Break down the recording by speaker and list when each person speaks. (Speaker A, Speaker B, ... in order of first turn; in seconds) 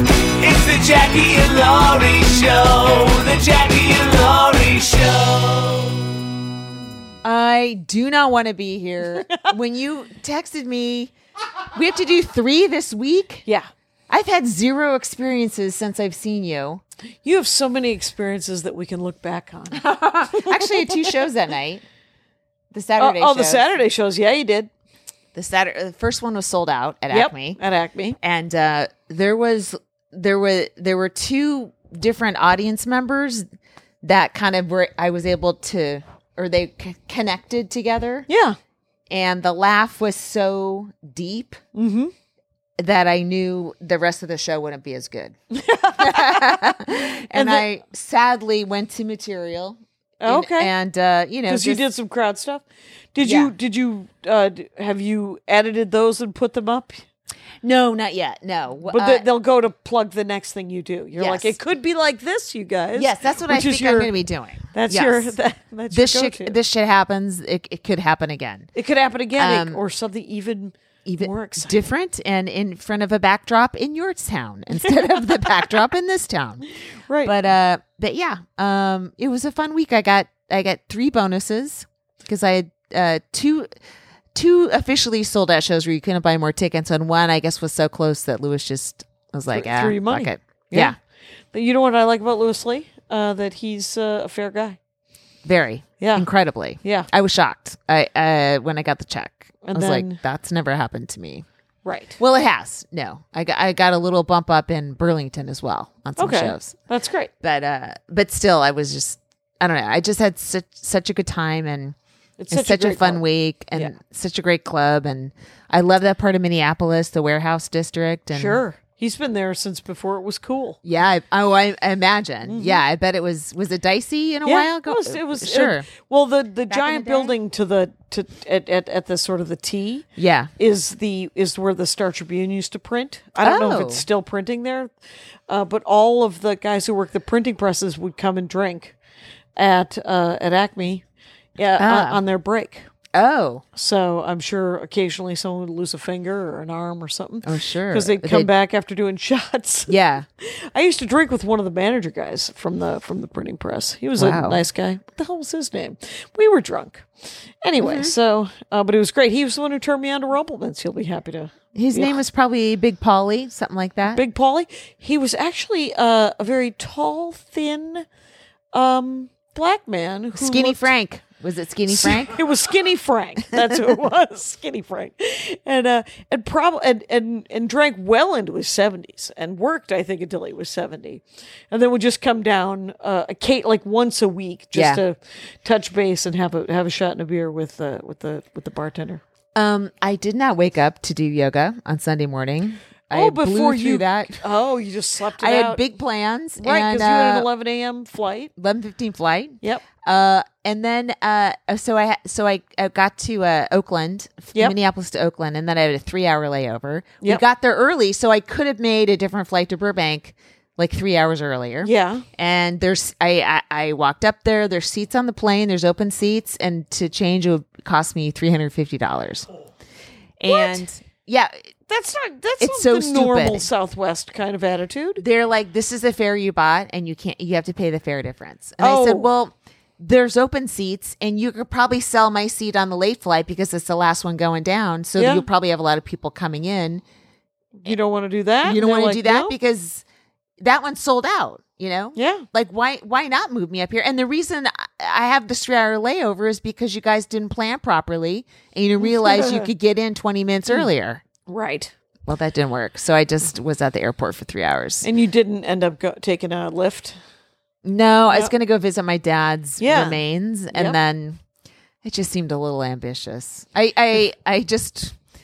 Speaker A: 0.4-6.0
Speaker B: 7.2-11.1, 11.7-13.4, 14.1-16.8, 19.7-21.8, 22.7-23.7, 25.3-27.6, 28.2-33.5, 34.0-38.3, 39.1-41.6, 42.8-45.4, 46.0-51.8, 53.2-53.5, 57.6-59.2, 61.1-61.6, 62.9-65.3, 65.9-68.7, 69.4-69.8, 71.0-76.6, 77.2-83.7, 84.3-91.0, 95.4-101.5, 102.2-106.8, 107.4-112.0, 112.5-118.6, 120.8-125.9, 126.7-127.3, 130.2-130.5, 133.4-134.1, 141.8-142.2, 143.1-143.6, 147.4-148.5, 149.9-150.3, 154.2-154.6, 157.8-158.2, 161.8-164.2, 170.3-172.4, 184.7-185.0, 189.6-194.4, 195.4-197.5, 198.6-219.5, 220.4-221.7, 222.6-223.7, 225.2-237.0, 238.6-240.0, 240.6-251.2, 252.3-255.1, 257.8-261.4, 262.0-265.1
Speaker C: 9.2-9.5, 17.2-21.2, 23.0-24.7, 27.1-28.2, 38.3-38.6, 41.8-42.1, 45.5-46.6, 47.3-47.7, 50.2-50.7, 51.5-57.0, 58.9-64.1, 64.7-66.6, 68.7-71.8, 77.1-77.3, 89.5-91.0, 91.5-94.8, 96.0-96.3, 96.8-97.1, 99.6-100.2, 101.8-102.2, 106.2-107.3, 112.4-113.9, 118.3-120.8, 122.4-122.8, 124.4-130.1, 130.6-134.9, 135.5-138.9, 139.6-141.0, 141.6-142.9, 143.8-157.1, 157.6-162.2, 164.1-168.1, 168.7-170.9, 171.9-189.2, 193.1-195.8, 196.6-198.5, 211.8-212.2, 220.5-220.9, 221.9-225.2, 228.8-229.3, 235.2-235.5, 237.8-239.6, 242.2-242.4, 249.0-249.7, 251.5-251.9, 255.0-257.1, 259.8-260.2, 260.7-261.0